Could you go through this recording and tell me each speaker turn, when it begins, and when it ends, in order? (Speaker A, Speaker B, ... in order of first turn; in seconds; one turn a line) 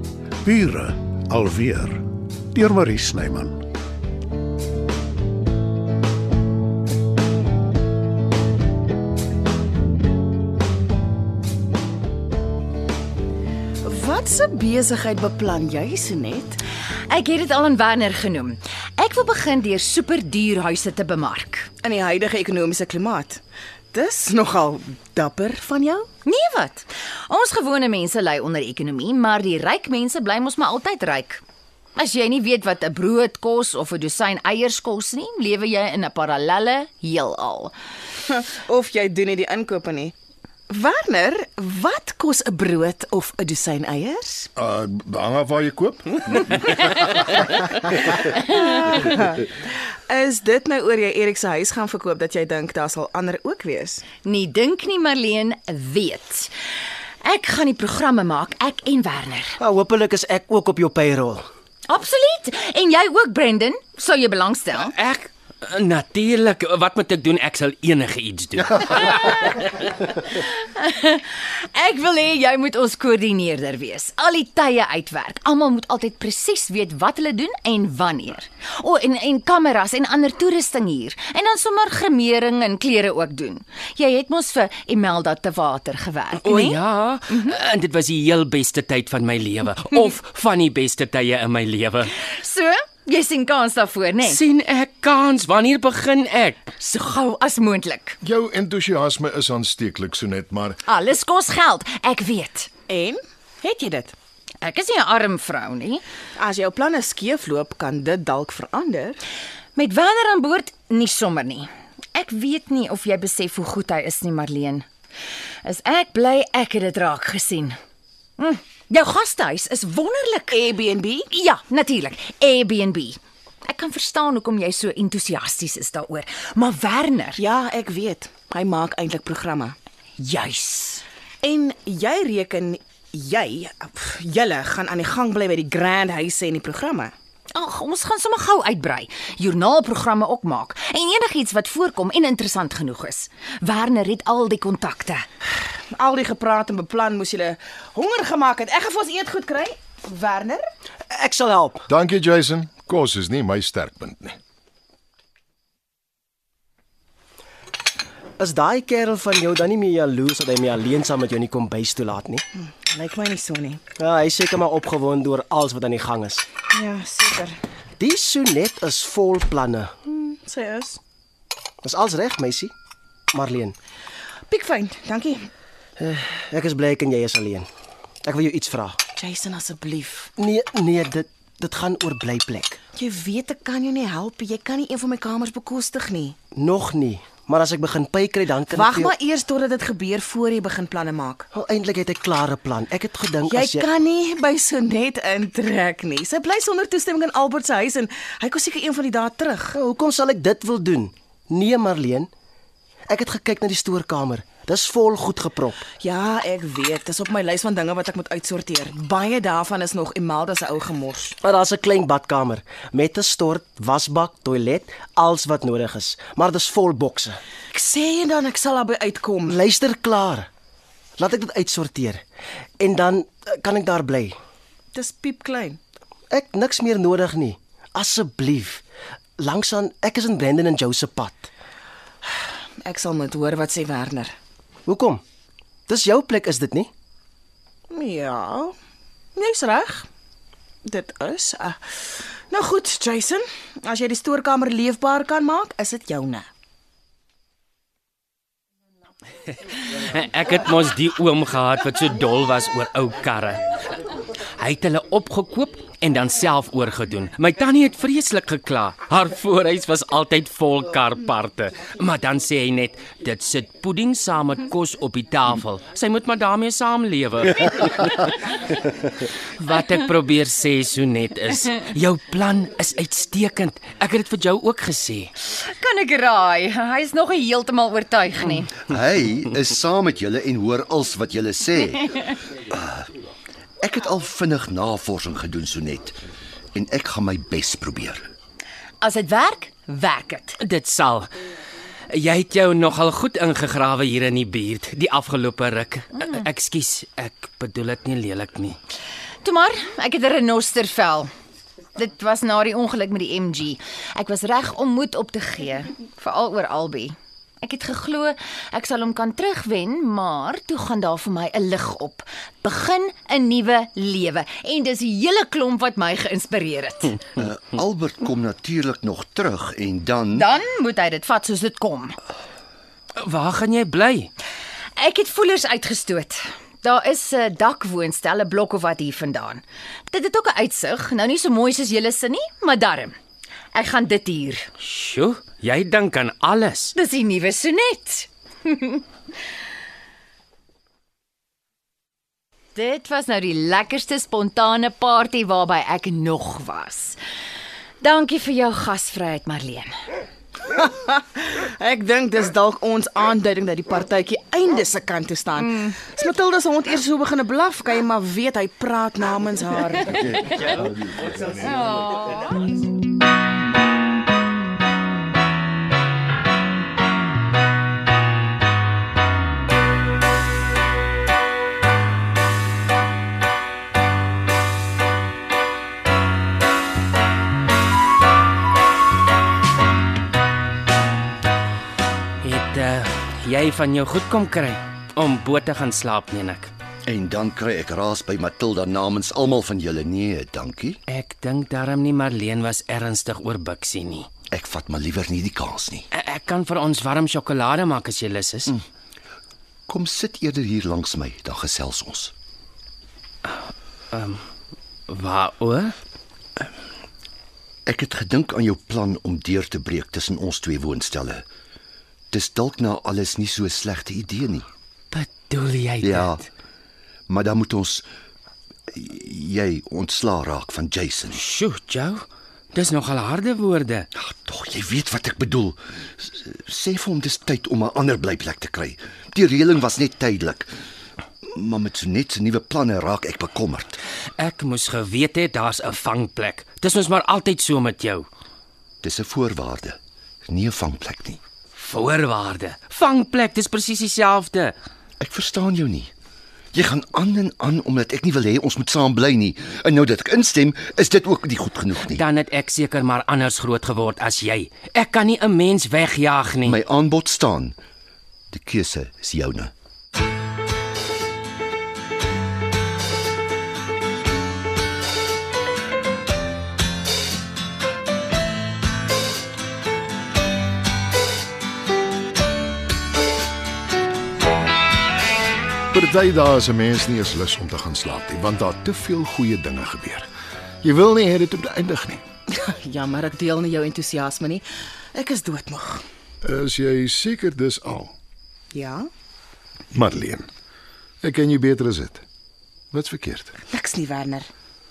Speaker A: 0.4-3.6
Speaker B: 13.8-16.6
Speaker C: 17.1-21.7
Speaker B: 21.8-23.4
Speaker B: 23.9-26.1
Speaker C: 26.2-31.4
Speaker C: 31.9-37.7
Speaker B: 38.2-40.1
Speaker B: 40.7-44.5
Speaker D: 44.5-46.9
Speaker B: 48.4-54.0
Speaker C: 54.2-56.5
Speaker C: 57.2-59.6
Speaker E: 59.6-61.4
Speaker C: 61.9-64.9
Speaker F: 64.9-69.5
Speaker C: 69.0-86.8
Speaker F: 86.4-92.1
Speaker C: 92.2-94.4
Speaker F: 94.2-96.6
Speaker C: 96.8-98.2
Speaker D: 98.2-100.8
Speaker C: 100.8-102.7
Speaker B: 102.9-104.1
Speaker C: 104.6-106.0
Speaker B: 106.4-109.2
Speaker C: 109.8-114.8
Speaker C: 115.6-117.8
Speaker C: 118.4-120.6
Speaker B: 120.5-121.2
Speaker C: 121.3-127.4
Speaker B: 127.4-129.8
Speaker C: 130.2-131.0
Speaker B: 131.4-137.1
Speaker C: 137.5-145.2
Speaker B: 145.9-150.7
Speaker E: 151.1-151.8
Speaker D: 151.9-154.4
Speaker E: 158.4-162.4
Speaker B: 162.6-163.8
Speaker E: 163.9-166.5
Speaker B: 166.7-167.6
Speaker E: 168.0-169.9
Speaker B: 170.1-171.0
Speaker E: 171.8-172.7
Speaker E: 173.3-173.8
Speaker B: 174.5-175.5
Speaker E: 176.0-177.7
Speaker E: 178.2-179.0
Speaker B: 179.2-180.3
Speaker E: 180.4-182.8
Speaker B: 182.9-186.3
Speaker E: 186.5-189.1
Speaker B: 188.7-191.5
Speaker E: 191.5-193.9
Speaker B: 193.4-199.8
Speaker E: 199.7-202.3
Speaker E: 203.1-205.8
Speaker B: 206.0-211.3
Speaker E: 211.4-217.4
Speaker B: 217.7-219.6
Speaker E: 219.4-220.5
Speaker E: 221.2-222.2
Speaker E: 222.8-224.3
Speaker B: 224.9-225.8
Speaker E: 226.3-228.8
Speaker E: 229.4-231.5
Speaker B: 232.3-234.3
Speaker E: 234.9-235.2
Speaker E: 235.9-236.9
Speaker B: 237.9-238.7
Speaker B: 239.3-240.1
Speaker B: 240.8-246.5
Speaker F: 249.8-253.6
Speaker F: 254.6-268.3
Speaker F: 269.6-275.3
Speaker C: 275.6-278.7
Speaker G: 278.9-282.2
Speaker G: 282.7-283.1
Speaker G: 283.8-286.2
Speaker G: 286.7-288.2
Speaker C: 289.0-290.6
Speaker F: 290.6-291.3
Speaker F: 292.1-298.8
Speaker C: 299.4-301.3
Speaker C: 301.9-317.2
Speaker G: 317.4-320.5
Speaker C: 320.3-322.1
Speaker F: 323.2-324.3
Speaker C: 324.9-333.1
Speaker C: 333.7-334.7
Speaker F: 334.8-336.9
Speaker C: 336.9-339.0
Speaker C: 342.7-347.2
Speaker C: 348.0-349.9
Speaker B: 350.7-360.5
Speaker C: 361.9-362.4
Speaker F: 382.4-386.7
Speaker G: 387.1-391.0
Speaker F: 391.1-394.3
Speaker G: 394.5-396.1
Speaker F: 396.1-398.8
Speaker G: 399.9-402.3
Speaker F: 404.1-404.4
Speaker F: 405.1-405.9
Speaker G: 407.9-411.4
Speaker G: 412.3-414.7
Speaker F: 415.1-416.3
Speaker G: 416.0-416.4
Speaker G: 417.3-418.1
Speaker G: 418.9-421.4
Speaker F: 421.3-424.1
Speaker G: 424.2-430.7
Speaker G: 431.4-434.0
Speaker F: 434.4-438.3
Speaker G: 439.0-441.4
Speaker F: 441.7-444.7
Speaker G: 445.2-446.1
Speaker G: 446.7-452.2
Speaker F: 452.0-456.8
Speaker G: 456.6-457.8
Speaker G: 458.5-459.7
Speaker D: 475.9-480.3
Speaker D: 480.8-482.2
Speaker B: 482.5-486.0
Speaker D: 486.4-488.1
Speaker B: 488.7-489.1
Speaker D: 489.9-490.5
Speaker D: 491.2-492.2
Speaker D: 492.9-493.6
Speaker B: 493.7-494.5